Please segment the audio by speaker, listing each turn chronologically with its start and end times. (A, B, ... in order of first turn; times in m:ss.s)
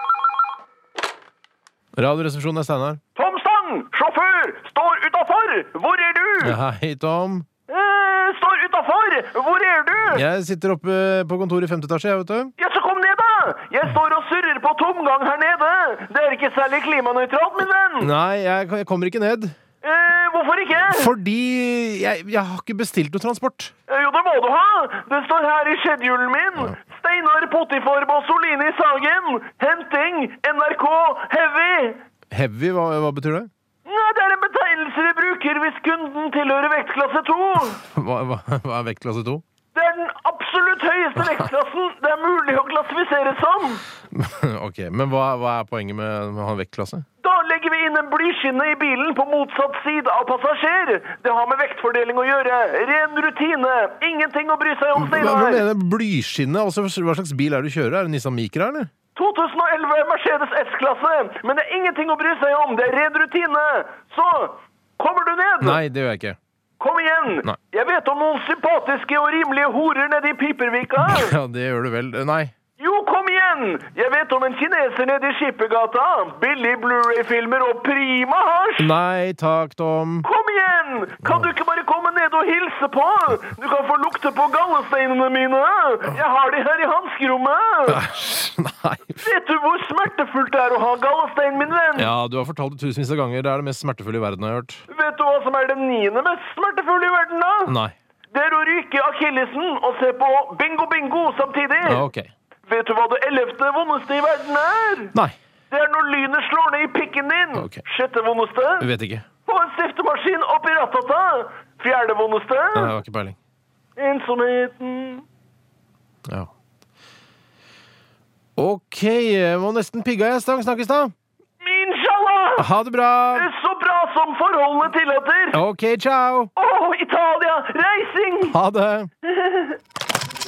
0:02.0-0:03.0 A
0:03.2-0:06.6 B
0:06.4-0:07.5 A
0:07.7-0:10.2 B
0:10.1-0:12.5 A
0:12.6-0:18.1 B
0:18.0-0:19.5 A
0:19.8-0:21.1 B
0:20.9-0:23.7 A
0:23.9-0:32.0 B
0:32.3-0:33.5 A
0:33.8-0:37.8 B
0:37.8-0:39.4 A
0:39.7-0:43.8 B
0:44.1-0:47.0 A
0:47.2-0:55.6 B
0:55.0-0:58.9 A
0:59.2-1:05.8 B
1:05.6-1:06.4 A
1:06.8-1:11.3 B
1:11.0-1:12.5 A
1:12.8-1:18.9 B
1:18.8-1:20.3 A
1:20.2-1:28.0 B
1:21.2-1:21.5 A
1:27.9-1:29.2 A
1:29.2-1:32.1 B
1:32.0-1:34.8 A
1:34.9-1:37.8 B
1:37.7-1:37.9 A
1:38.3-1:42.0 B
1:41.8-1:42.3 A
1:42.7-1:45.1 B
1:45.7-1:48.9 B
1:47.6-1:47.8 A
1:48.8-1:49.2 A
1:49.5-1:52.9 B
1:52.8-1:53.4 A
1:54.0-1:55.2 B
1:58.6-2:01.1 A
2:01.6-2:02.7 B
2:02.6-2:03.5 A
2:03.3-2:05.6 B
2:05.5-2:06.5 A
2:06.6-2:08.6 B
2:08.5-2:09.1 A
2:09.2-2:09.8 B